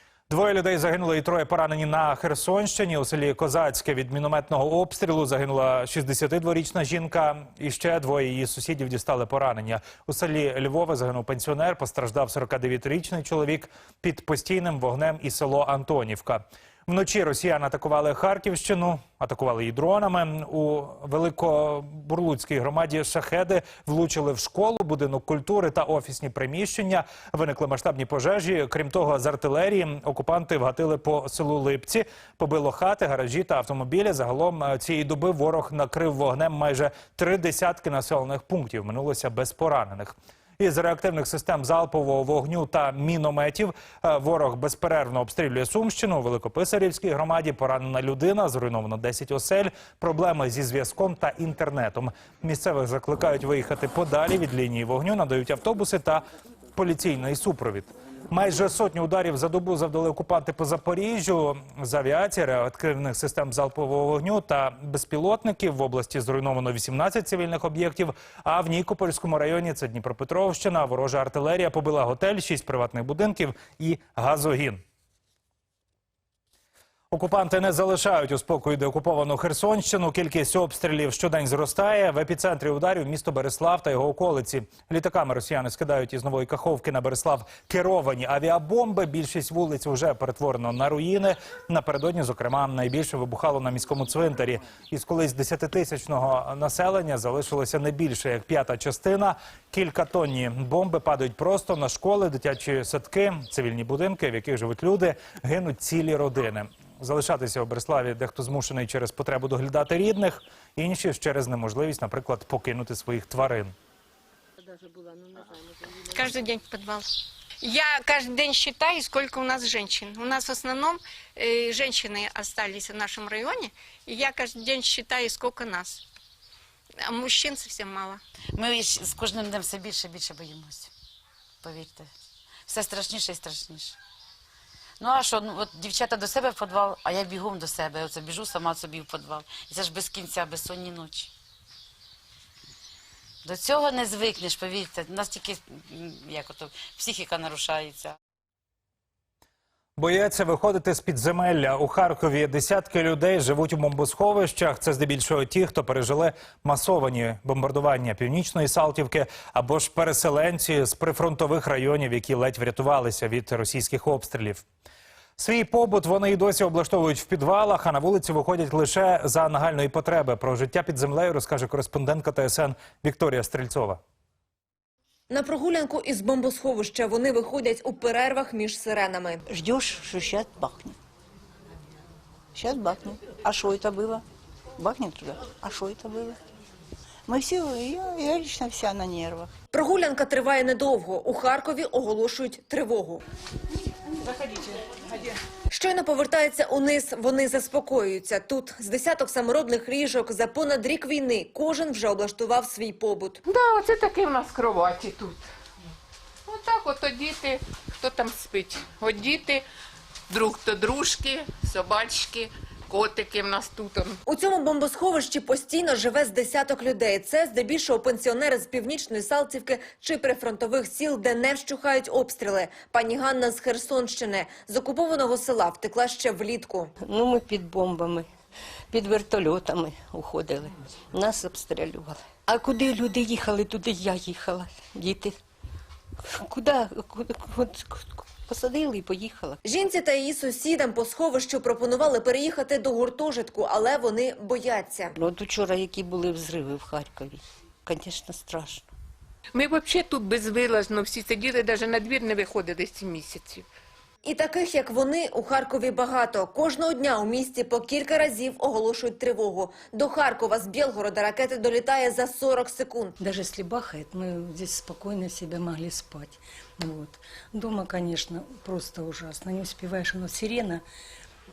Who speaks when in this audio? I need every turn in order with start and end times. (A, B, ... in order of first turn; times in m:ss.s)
0:00.3-1:14.8 A
1:17.1-1:53.7 A
1:56.0-1:57.0 B
1:57.6-2:06.0 B
2:07.0-2:08.2 B
2:08.5-2:10.9 C
2:11.6-2:12.1 C
2:12.7-2:14.0 C
2:15.0-2:21.3 C
2:23.4-2:28.2 C
2:30.0-2:44.6 A
2:45.4-2:54.0 A
2:55.3-2:59.4 D
2:59.5-3:01.0 E
3:02.5-3:04.2 E
3:04.8-3:06.4 E
3:07.3-3:09.5 E
3:09.7-3:13.2 D
3:15.7-3:23.4 D
3:23.4-3:25.5 F
3:26.5-3:29.6 F
3:30.3-3:34.2 F
3:34.3-3:46.9 D
3:59.6-4:05.1 D
4:05.3-4:05.6 E
4:07.9-4:08.8 E
4:09.5-4:13.6 F
4:14.2-4:23.1 D
4:23.2-4:30.8 G